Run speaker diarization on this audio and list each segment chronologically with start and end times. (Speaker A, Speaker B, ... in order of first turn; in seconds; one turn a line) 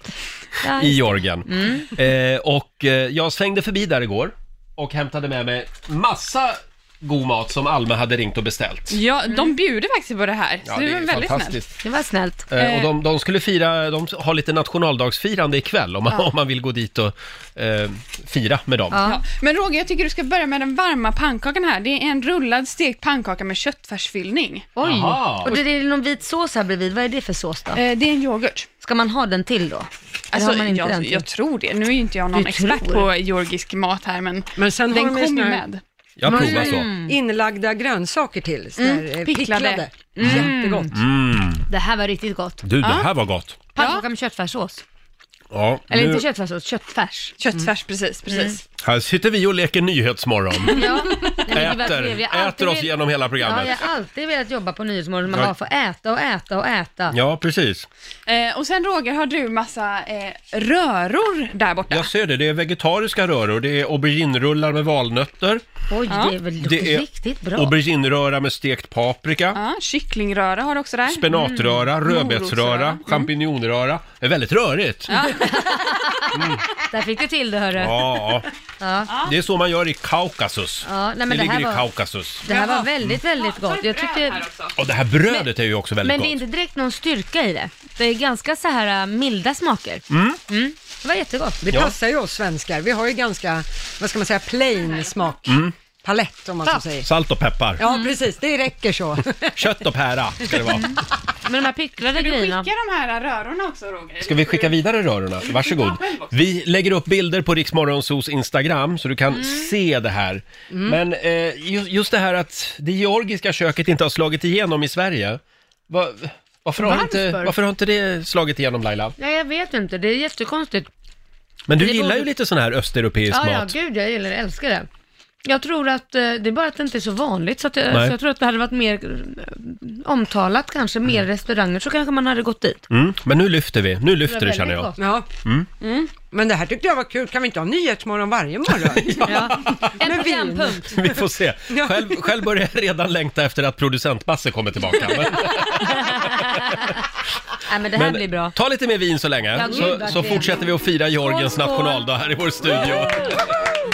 Speaker A: 0.6-1.9
Speaker B: 0.8-9.0
Speaker C: 8.9-11.6
Speaker A: 9.3-9.5
Speaker B: 10.6-11.7
Speaker A: 11.8-12.5
Speaker B: 12.5-19.0
Speaker C: 12.5-12.9
Speaker A: 18.9-19.2
Speaker C: 19.0-24.7
Speaker A: 24.8-27.8
Speaker B: 24.8-25.5
Speaker C: 27.7-28.7
Speaker A: 28.8-31.3
Speaker C: 30.3-35.8
Speaker A: 32.3-33.1
Speaker D: 34.5-35.6
Speaker B: 36.2-36.9
Speaker A: 36.2-37.1
Speaker D: 36.3-40.9
Speaker C: 38.8-39.9
Speaker A: 40.2-40.9
Speaker B: 40.9-41.6
Speaker A: 41.7-42.6
Speaker B: 42.6-43.6
Speaker C: 42.8-43.1
Speaker A: 43.7-44.8
Speaker C: 43.8-44.0
Speaker B: 45.5-46.2
Speaker A: 45.9-47.4
Speaker C: 47.4-48.6
Speaker A: 48.2-48.6
Speaker B: 48.8-50.8
Speaker A: 50.7-57.1
Speaker C: 50.7-51.4
Speaker B: 51.5-53.8
Speaker B: 57.1-57.9
Speaker C: 58.3-62.1
Speaker B: 61.9-65.6
Speaker A: 65.9-67.7
Speaker C: 66.1-66.3
Speaker B: 66.6-69.6
Speaker C: 69.5-71.3
Speaker B: 71.1-75.2
Speaker A: 71.3-71.8
Speaker C: 72.0-73.3
Speaker C: 75.1-76.2
Speaker A: 75.3-78.2
Speaker B: 76.3-76.6
Speaker B: 77.8-78.5
Speaker A: 78.8-79.1
Speaker C: 79.1-79.3
Speaker B: 79.2-82.5
Speaker A: 80.8-81.9
Speaker A: 82.4-84.5
Speaker D: 82.5-82.8
Speaker C: 83.2-84.7
Speaker B: 84.8-86.4
Speaker A: 86.0-91.6
Speaker B: 90.1-90.4
Speaker D: 91.6-97.1
Speaker C: 94.8-95.3
Speaker B: 95.5-95.7
Speaker B: 97.0-97.8
Speaker D: 97.8-99.6
Speaker A: 97.8-98.1
Speaker B: 99.5-100.9
Speaker A: 101.4-102.7
Speaker C: 102.0-104.8
Speaker B: 104.2-119.1
Speaker C: 105.4-106.4
Speaker A: 109.3-109.7
Speaker D: 110.7-111.0
Speaker A: 116.8-117.5
Speaker A: 119.2-120.9
Speaker B: 121.7-123.7
Speaker A: 121.8-122.3
Speaker A: 123.3-124.9
Speaker A: 125.4-132.8
Speaker B: 132.9-134.9
Speaker A: 134.2-135.0
Speaker D: 135.0-135.3
Speaker D: 136.3-141.0
Speaker B: 138.9-139.9
Speaker A: 139.2-140.9
Speaker B: 140.9-146.9
Speaker D: 141.7-142.2
Speaker A: 145.7-146.8
Speaker A: 147.7-148.5
Speaker B: 147.9-153.4
Speaker A: 149.5-153.4